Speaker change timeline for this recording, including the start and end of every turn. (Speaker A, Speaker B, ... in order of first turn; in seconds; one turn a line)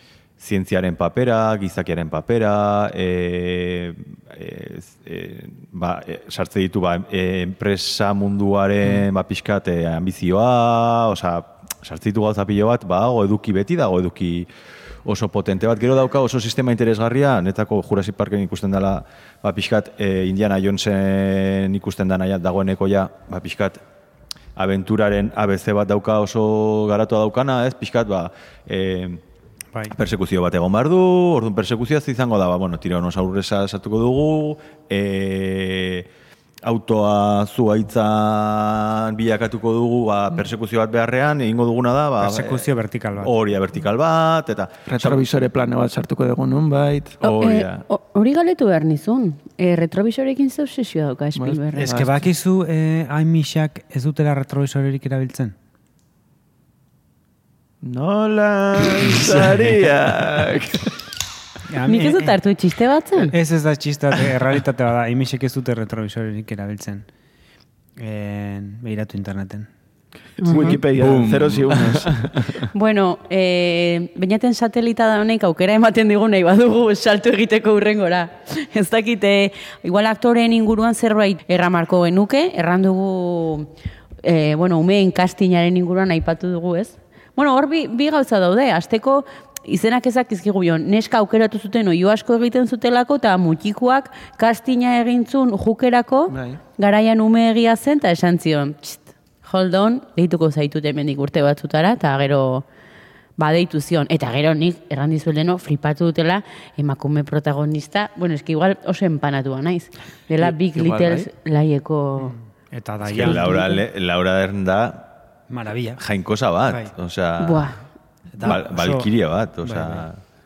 Speaker A: 0.4-14.5
Speaker A: 15.1-23.8
Speaker A: 24.6-29.2
Speaker A: 29.9-36.1
Speaker A: 36.6-45.4
Speaker B: 42.2-43.4
Speaker C: 44.9-47.2
Speaker A: 47.2-47.8
Speaker D: 47.2-51.9
Speaker C: 51.4-52.3
Speaker B: 51.8-55.5
Speaker C: 57.8-60.9
Speaker B: 61.7-62.4
Speaker D: 61.9-63.3
Speaker B: 63.2-67.1
Speaker B: 68.0-69.7
Speaker D: 70.4-70.8
Speaker C: 70.4-72.5
Speaker A: 70.7-72.6
Speaker D: 72.7-83.7
Speaker D: 84.2-102.7
Speaker C: 96.3-96.6
Speaker D: 103.4-112.4
Speaker C: 110.4-111.3
Speaker B: 112.2-113.6
Speaker A: 113.0-115.1
Speaker D: 113.2-113.8
Speaker B: 115.5-116.0
Speaker A: 116.0-117.7
Speaker D: 117.4-117.8
Speaker B: 118.4-119.1
Speaker A: 118.4-120.2
Speaker B: 119.6-120.1